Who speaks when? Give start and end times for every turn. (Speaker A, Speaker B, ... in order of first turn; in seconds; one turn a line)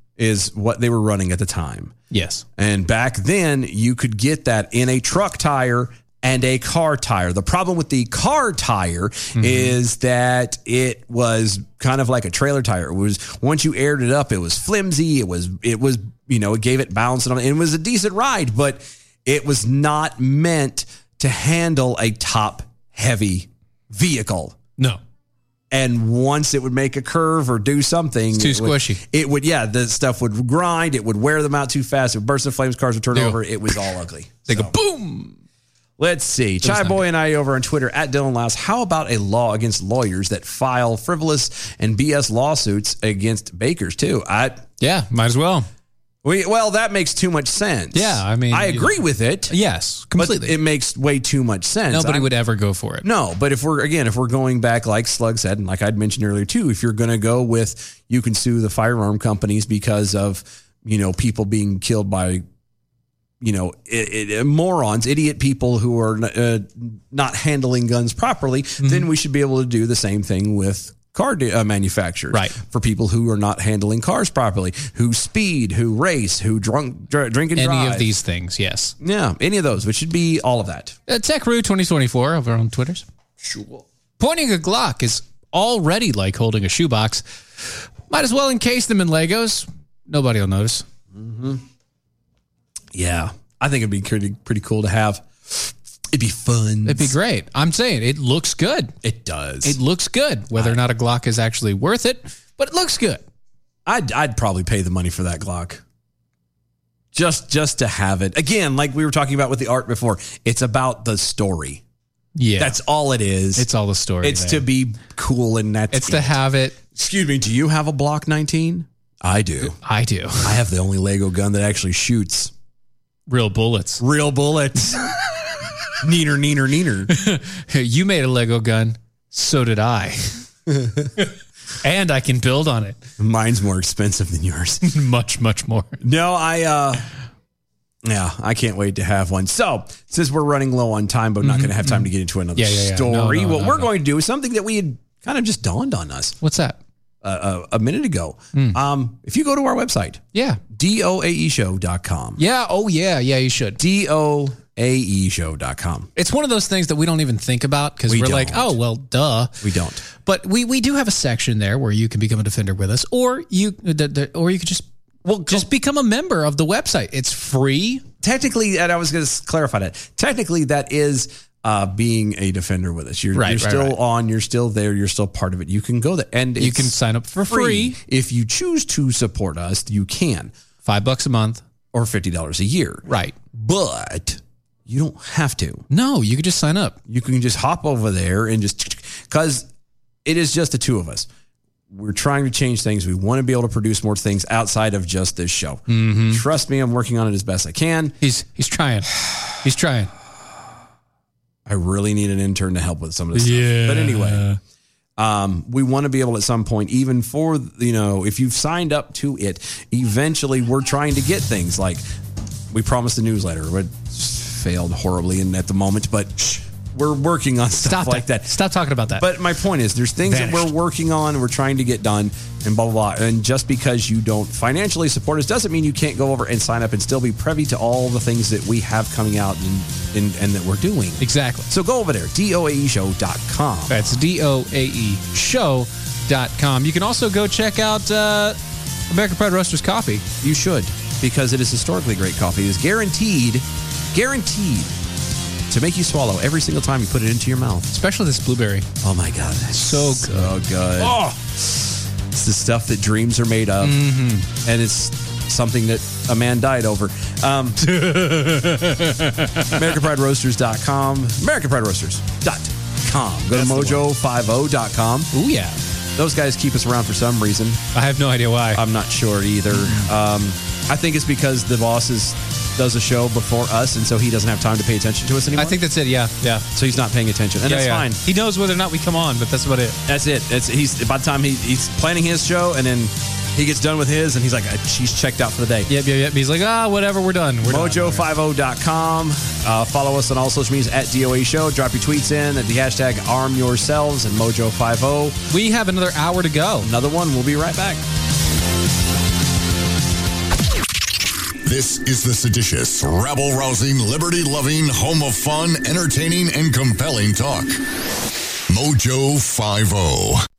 Speaker A: 0.2-1.9
Speaker B: 2.1-2.4
Speaker A: 2.6-24.6
Speaker B: 9.4-9.8
Speaker A: 25.7-34.7
Speaker B: 28.4-29.0
Speaker B: 34.5-35.4
Speaker A: 36.0-44.7
Speaker B: 36.6-37.0
Speaker B: 44.8-45.7
Speaker A: 46.2-49.5
Speaker B: 47.9-49.0
Speaker B: 49.5-50.6
Speaker A: 50.2-52.3
Speaker B: 51.9-53.1
Speaker A: 53.0-62.4
Speaker A: 63.4-78.1
Speaker B: 68.8-69.1
Speaker B: 77.5-79.0
Speaker A: 79.0-81.0
Speaker B: 81.1-83.0
Speaker A: 83.4-83.8
Speaker B: 84.2-90.8
Speaker A: 91.1-91.6
Speaker A: 92.9-97.1
Speaker B: 96.9-98.9
Speaker A: 99.0-99.8
Speaker B: 99.6-103.2
Speaker A: 100.5-100.8
Speaker A: 103.9-105.8
Speaker A: 107.1-111.8
Speaker B: 112.4-112.8
Speaker A: 112.6-113.7
Speaker B: 113.6-114.7
Speaker A: 114.2-116.3
Speaker B: 115.9-116.8
Speaker A: 116.9-119.8
Speaker B: 119.8-120.6
Speaker A: 120.4-122.5
Speaker B: 123.3-124.0
Speaker A: 124.0-125.1
Speaker A: 126.0-127.1
Speaker B: 127.1-130.4
Speaker A: 130.7-131.1
Speaker B: 131.8-133.0
Speaker A: 133.2-134.8
Speaker B: 134.8-136.0
Speaker A: 136.0-137.0
Speaker A: 138.0-146.4
Speaker B: 141.4-143.9
Speaker B: 146.4-146.8
Speaker A: 147.2-152.4
Speaker B: 148.5-148.8
Speaker B: 150.3-150.6
Speaker B: 152.4-153.8
Speaker A: 153.8-156.1
Speaker B: 156.2-159.6
Speaker A: 158.1-158.8
Speaker A: 159.6-160.0
Speaker B: 160.1-164.9
Speaker A: 165.2-165.7
Speaker B: 165.4-168.1
Speaker A: 168.2-176.9
Speaker B: 173.3-174.0
Speaker B: 176.6-178.0
Speaker A: 177.5-180.5
Speaker B: 180.8-181.6
Speaker A: 181.9-185.8
Speaker B: 183.1-183.4
Speaker B: 185.9-187.0
Speaker A: 187.1-189.7
Speaker A: 190.2-191.3
Speaker A: 191.9-198.2
Speaker B: 195.9-196.4
Speaker B: 198.2-200.1
Speaker A: 201.7-204.5
Speaker B: 203.3-204.6
Speaker A: 205.2-212.0
Speaker A: 212.7-218.5
Speaker B: 217.8-219.3
Speaker A: 219.2-234.2
Speaker B: 220.3-220.7
Speaker B: 231.2-231.7
Speaker B: 233.9-238.6
Speaker B: 239.1-240.3
Speaker A: 240.4-245.0
Speaker A: 245.7-247.9
Speaker B: 247.9-248.9
Speaker A: 249.0-251.8
Speaker B: 249.8-250.5
Speaker B: 251.0-251.4
Speaker A: 252.3-254.0
Speaker B: 253.8-254.5
Speaker A: 254.6-257.8
Speaker B: 257.8-259.9
Speaker A: 259.7-265.3
Speaker B: 263.5-264.1
Speaker B: 265.3-265.8
Speaker A: 266.2-267.8
Speaker B: 267.9-268.8
Speaker A: 268.7-275.8
Speaker B: 269.7-270.1
Speaker B: 275.5-276.7
Speaker A: 276.7-278.2
Speaker B: 277.7-280.0
Speaker A: 280.1-285.9
Speaker B: 285.9-288.3
Speaker A: 287.6-295.4
Speaker B: 295.5-296.9
Speaker A: 296.8-298.0
Speaker C: 301.6-307.8
Speaker C: 308.7-310.4